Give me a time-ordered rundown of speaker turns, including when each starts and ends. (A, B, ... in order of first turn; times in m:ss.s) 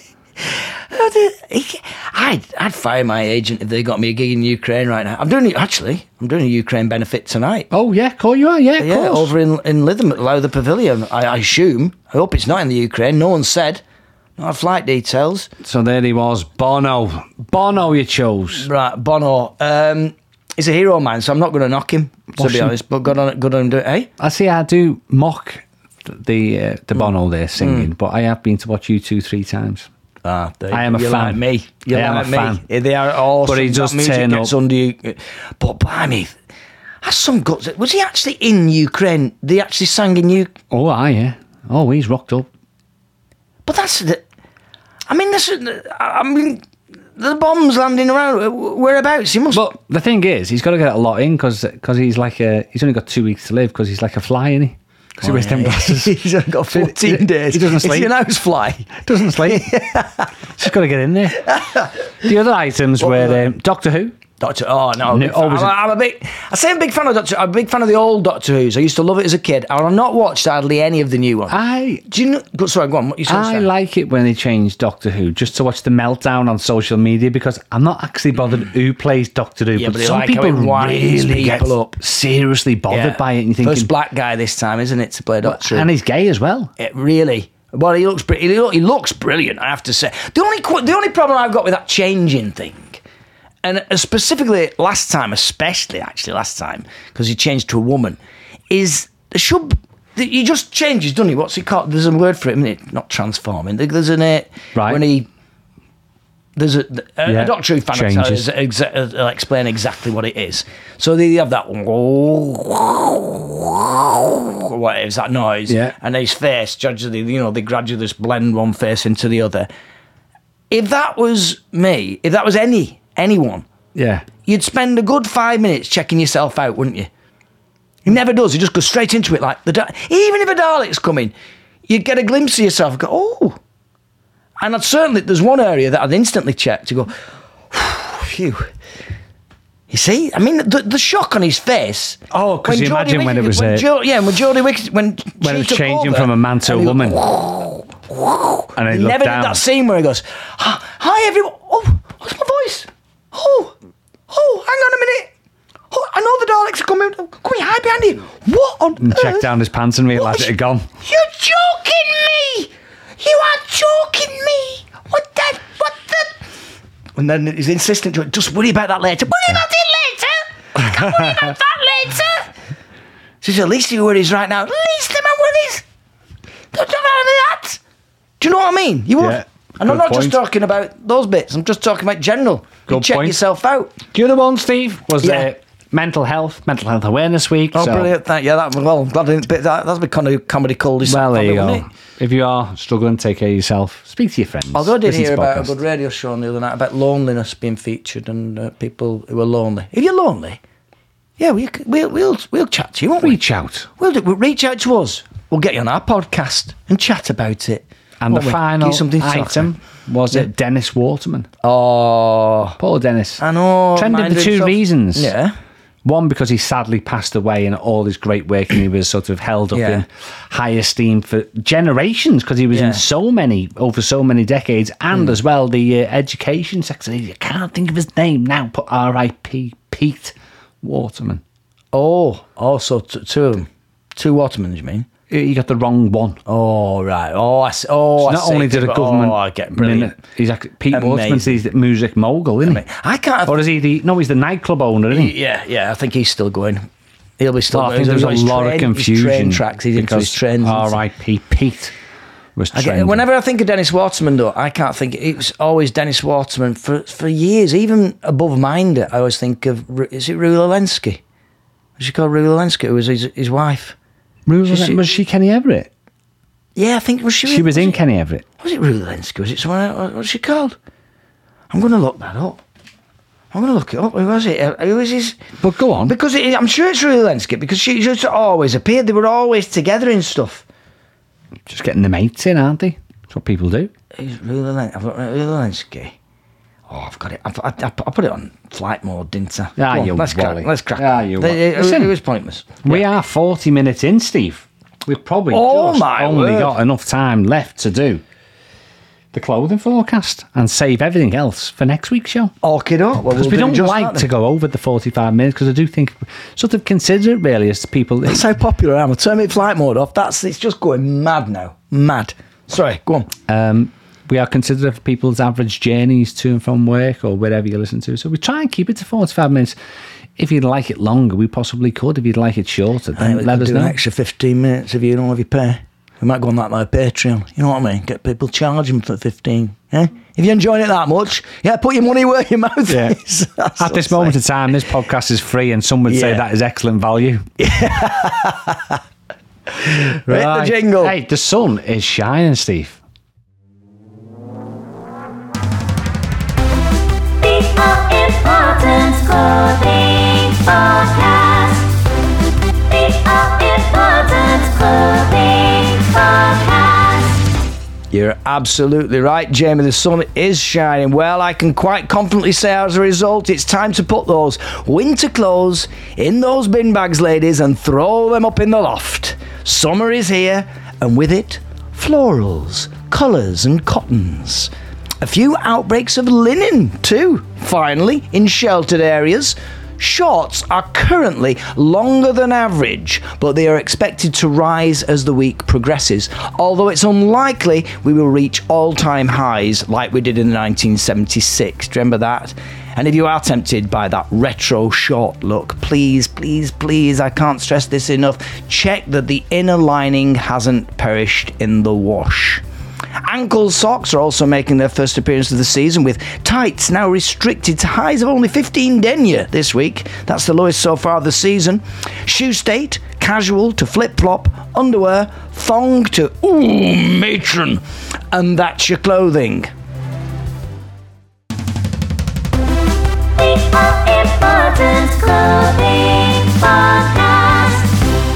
0:00.5-0:07.7 A
0:07.7-0:09.3 B
0:08.8-0:13.8 A
0:14.4-0:15.5 A
0:15.6-0:18.7 B
0:18.6-0:24.1 A
0:22.4-0:22.8 B
0:24.2-0:29.9 B
0:27.6-0:27.9 A
0:30.2-0:36.4 A
0:30.7-0:32.6 B
0:33.5-0:34.6 B
0:37.0-0:40.5 A
0:40.7-0:42.5 B
0:43.6-0:44.2 A
0:45.1-0:46.6 A
0:47.2-0:49.7 A
0:49.5-0:56.2 B
0:55.2-1:00.3 A
0:56.7-0:58.2 B
0:59.0-0:59.8 B
1:00.6-1:01.5 B
1:01.5-1:01.9 A
1:02.2-1:04.2 B
1:03.0-1:03.5 A
1:04.4-1:13.7 A
1:05.1-1:05.8 B
1:11.5-1:12.0 B
1:13.3-1:23.9 B
1:19.8-1:22.0 A
1:22.9-1:25.9 A
1:25.4-1:26.7 B
1:26.8-1:33.0 A
1:33.6-1:38.2 A
1:38.7-1:45.3 A
1:44.8-1:45.0 B
1:46.6-1:59.7 A
1:47.3-1:48.5 B
1:55.7-1:56.0 B
2:00.7-2:03.7 A
2:04.0-2:04.3 B
2:04.4-2:07.1 A
2:08.0-2:11.3 A
2:11.9-2:13.6 A
2:14.6-2:17.1 A
2:17.7-2:18.7 A
2:19.9-2:33.7 A
2:22.3-2:23.9 B
2:25.4-2:27.2 B
2:28.8-2:29.6 B
2:34.3-2:35.3 A
2:35.9-2:39.5 A
2:39.0-2:40.9 B
2:40.2-2:46.4 A
2:47.2-2:52.5 A
2:50.8-2:51.6 B
2:53.4-2:55.8 A
2:56.7-2:57.8 A
2:58.4-3:04.0 A
2:59.2-3:00.4 B
3:02.9-3:03.4 B
3:04.1-3:08.1 B
3:05.2-3:05.5 A
3:07.7-3:11.9 A
3:11.0-3:15.8 B
3:14.7-3:20.6 A
3:21.4-3:23.4 A
3:23.2-3:23.9 B
3:24.0-3:29.7 A
3:28.2-3:31.5 B
3:31.6-3:32.8 A
3:32.8-3:33.4 B
3:33.4-3:35.5 A
3:34.0-3:35.3 B
3:36.0-3:51.4 B
3:39.7-3:40.0 A
3:42.7-3:43.0 A
3:51.9-3:55.1 A
3:55.3-3:56.4 B
3:56.5-4:00.2 A
3:58.2-4:02.8 B
4:00.9-4:01.6 A
4:02.6-4:03.6 A
4:03.5-4:05.4 B
4:05.1-4:06.8 A
4:07.4-4:11.0 A
4:07.7-4:11.9 B
4:12.6-4:13.2 B
4:12.7-4:21.2 A
4:22.0-4:24.0 A
4:24.5-4:25.9 B
4:24.7-4:25.0 A
4:26.8-4:28.0 A
4:27.4-4:28.4 B
4:28.6-4:30.8 A
4:31.7-4:32.6 A
4:33.5-4:35.4 A
4:35.6-4:36.2 B
4:36.0-4:40.6 A
4:41.7-4:43.9 B
4:44.1-4:46.2 A
4:46.9-4:53.0 A
4:49.8-4:52.1 B
4:52.8-4:58.2 B
4:55.5-4:56.8 A
4:59.3-5:02.5 B
5:02.6-5:04.3 A
5:03.3-5:08.4 B
5:08.3-5:13.3 A
5:13.5-5:19.8 B
5:20.4-5:24.0 B
5:23.2-5:34.4 A
5:32.9-5:33.2 B
5:33.8-5:37.5 B
5:36.1-5:36.4 A
5:37.6-5:39.0 A
5:39.8-5:41.2 A
5:40.3-5:43.0 B
5:47.4-5:52.0 C
5:52.8-5:57.5 C
5:58.1-6:42.6 A
6:43.2-6:59.7 A
7:03.4-7:08.0 C